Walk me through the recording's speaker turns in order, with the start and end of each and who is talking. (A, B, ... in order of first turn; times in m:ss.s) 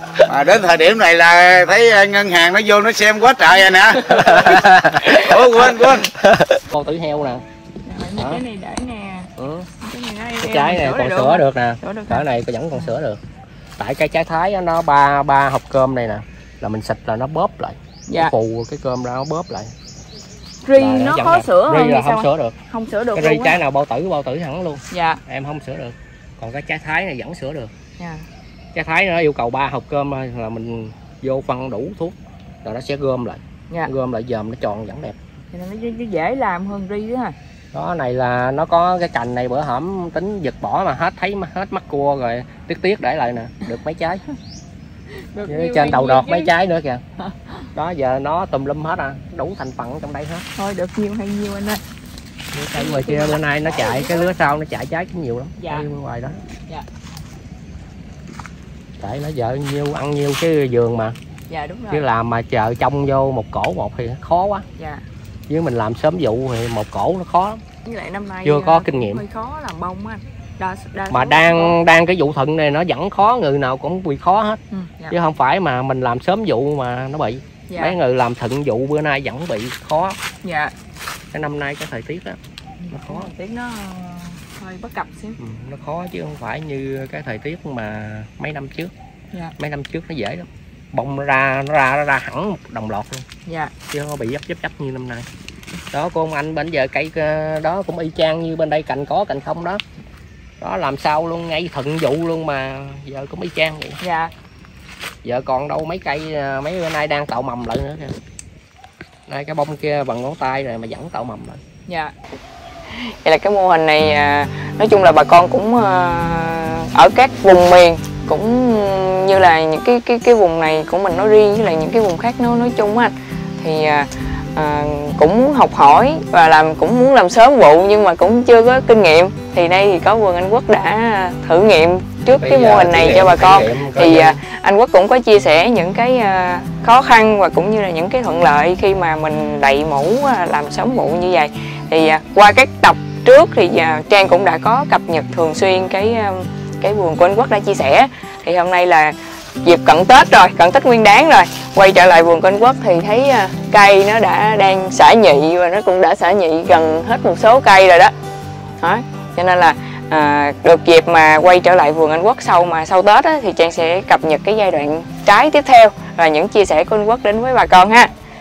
0:00.2-0:04.4 A
0:04.1-0:05.3 B
0:05.0-0:06.1 A
0:06.0-0:07.4 B
0:07.8-0:12.9 C
0:08.2-0:08.4 B
0:09.4-0:09.7 B
0:10.4-0:13.2 B
0:13.8-0:19.7 B
0:18.1-0:18.3 C
0:20.6-0:23.6 C
0:20.7-0:22.5 B
0:23.1-0:27.7 B
0:24.9-0:25.2 C
0:28.0-0:28.2 C
0:28.7-0:35.2 B
0:35.5-0:37.4 C
0:37.7-0:44.2 B
0:45.3-0:46.5 C
0:45.4-0:47.0 B
0:47.2-0:47.5 C
0:47.7-0:50.4 B
0:50.6-0:51.8 C
0:52.5-0:56.4 B
0:52.7-0:54.3 C
0:55.6-0:55.9 C
0:59.0-1:01.1 B
1:01.5-1:02.0 C
1:01.9-1:04.6 B
1:04.8-1:05.0 C
1:05.5-1:07.6 B
1:07.8-1:11.8 C
1:08.4-1:09.2 B
1:11.1-1:14.6 B
1:14.7-1:15.2 C
1:15.1-1:20.2 B
1:17.7-1:18.0 C
1:20.4-1:20.7 C
1:21.3-1:22.4 B
1:22.8-1:25.4 C
1:22.9-1:23.3 B
1:25.4-1:28.9 B
1:29.6-1:33.2 B
1:33.4-1:33.7 C
1:33.9-1:35.3 B
1:35.9-1:39.8 B
1:40.6-1:44.0 B
1:44.0-1:44.3 C
1:45.2-1:48.2 B
1:49.3-1:51.6 B
1:51.9-1:52.1 C
1:52.9-2:38.1 C
2:12.3-2:14.4 B
2:38.8-2:48.1 C